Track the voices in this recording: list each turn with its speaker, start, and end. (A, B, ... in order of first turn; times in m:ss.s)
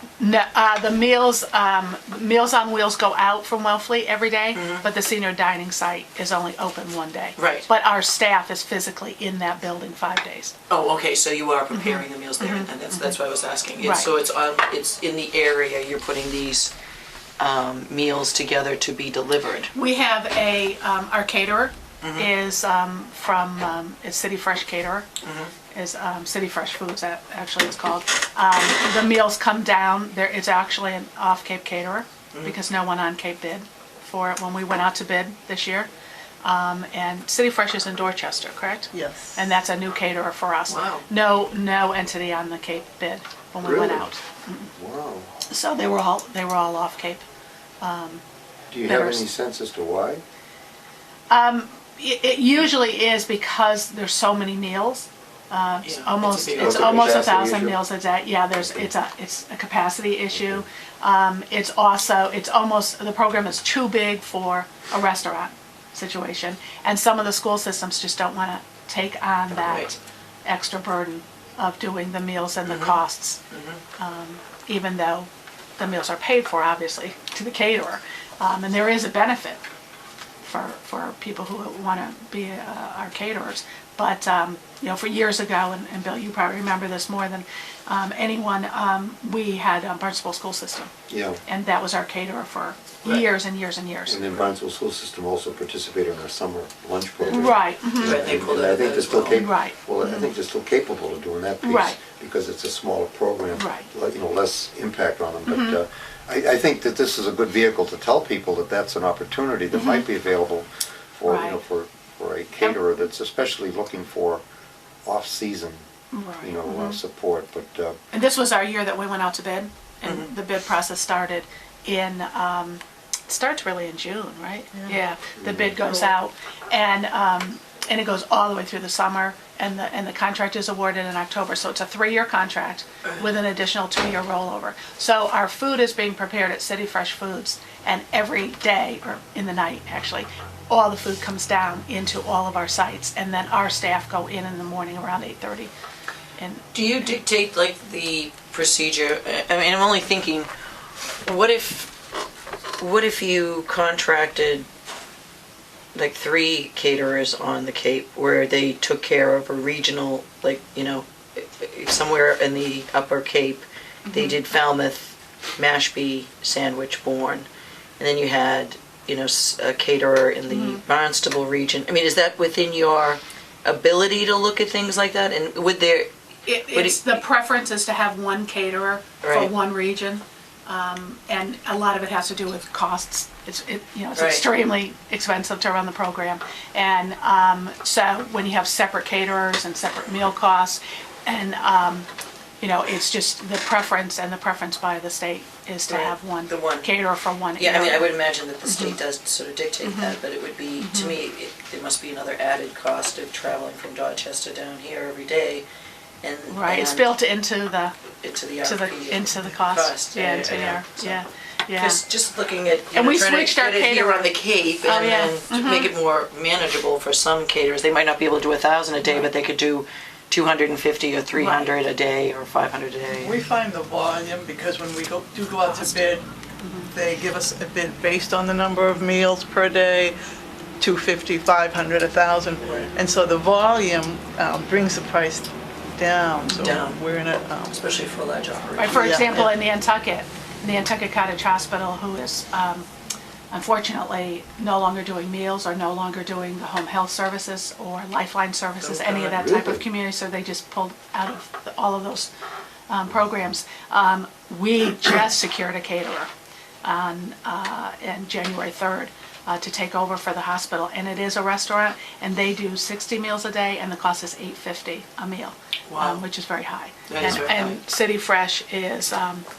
0:00.2-0:10.6 A
0:04.6-0:04.9 B
0:07.4-0:07.7 B
0:10.7-0:16.7 B
0:11.7-0:13.2 A
0:13.8-0:14.1 A
0:17.4-0:19.7 B
0:19.7-0:25.1 A
0:22.0-0:22.3 B
0:25.2-0:25.5 B
0:25.7-0:35.9 A
0:36.4-0:44.7 A
0:38.9-0:39.4 C
0:40.7-0:41.0 B
0:43.6-0:44.1 D
0:44.8-0:45.3 D
0:45.5-0:47.2 A
0:47.8-0:48.2 A
0:48.7-0:50.2 D
0:48.8-0:49.3 A
0:51.3-1:13.4 A
0:55.8-0:57.2 B
0:56.6-0:57.8 D
1:09.7-1:09.9 B
1:12.7-1:13.0 B
1:13.5-1:13.8 B
1:14.0-1:19.6 A
1:20.4-1:30.9 A
1:31.1-1:31.4 D
1:31.5-1:34.2 A
1:33.0-1:33.3 B
1:34.1-1:54.4 D
1:37.3-1:38.3 A
1:38.0-1:39.4 B
1:39.3-1:40.3 A
1:41.6-1:42.0 A
1:43.6-1:43.9 A
1:45.5-1:45.8 A
1:49.7-1:50.0 A
1:51.3-1:51.6 A
1:55.0-1:55.8 D
1:56.1-1:57.0 A
1:56.4-1:58.0 D
1:58.1-2:25.7 A
2:05.4-2:05.8 D
2:26.4-2:27.1 A
2:26.7-2:30.5 B
2:31.2-2:31.9 B
2:32.8-2:34.7 B
2:36.0-2:47.5 B
2:44.1-2:44.4 A
2:48.0-2:56.1 B
2:50.5-2:50.8 A
2:56.5-3:12.1 A
2:56.7-2:57.2 B
2:59.2-2:59.5 B
3:04.2-3:04.4 B
3:12.6-3:18.1 A
3:15.9-3:16.9 B
3:17.6-3:25.7 B
3:18.6-3:19.0 A
3:19.8-3:20.2 A
3:20.8-3:21.2 A
3:26.2-3:27.2 B
3:26.5-3:28.0 A
3:28.2-3:31.2 B
3:28.6-3:32.0 A
3:31.8-3:43.4 B
3:32.9-3:35.9 A
3:39.0-3:39.3 A
3:41.3-3:41.8 A
3:43.1-3:46.2 C
3:46.6-3:46.9 A
3:46.9-3:50.2 C
3:50.8-3:57.8 C
3:56.5-3:57.0 B
3:57.7-3:59.2 B
3:58.8-4:02.9 A
3:58.9-3:59.6 C
4:03.5-4:12.3 A
4:09.0-4:09.3 B
4:09.2-4:09.8 D
4:12.9-4:16.3 A
4:16.8-4:29.5 A
4:25.9-4:26.2 B
4:27.1-4:27.8 B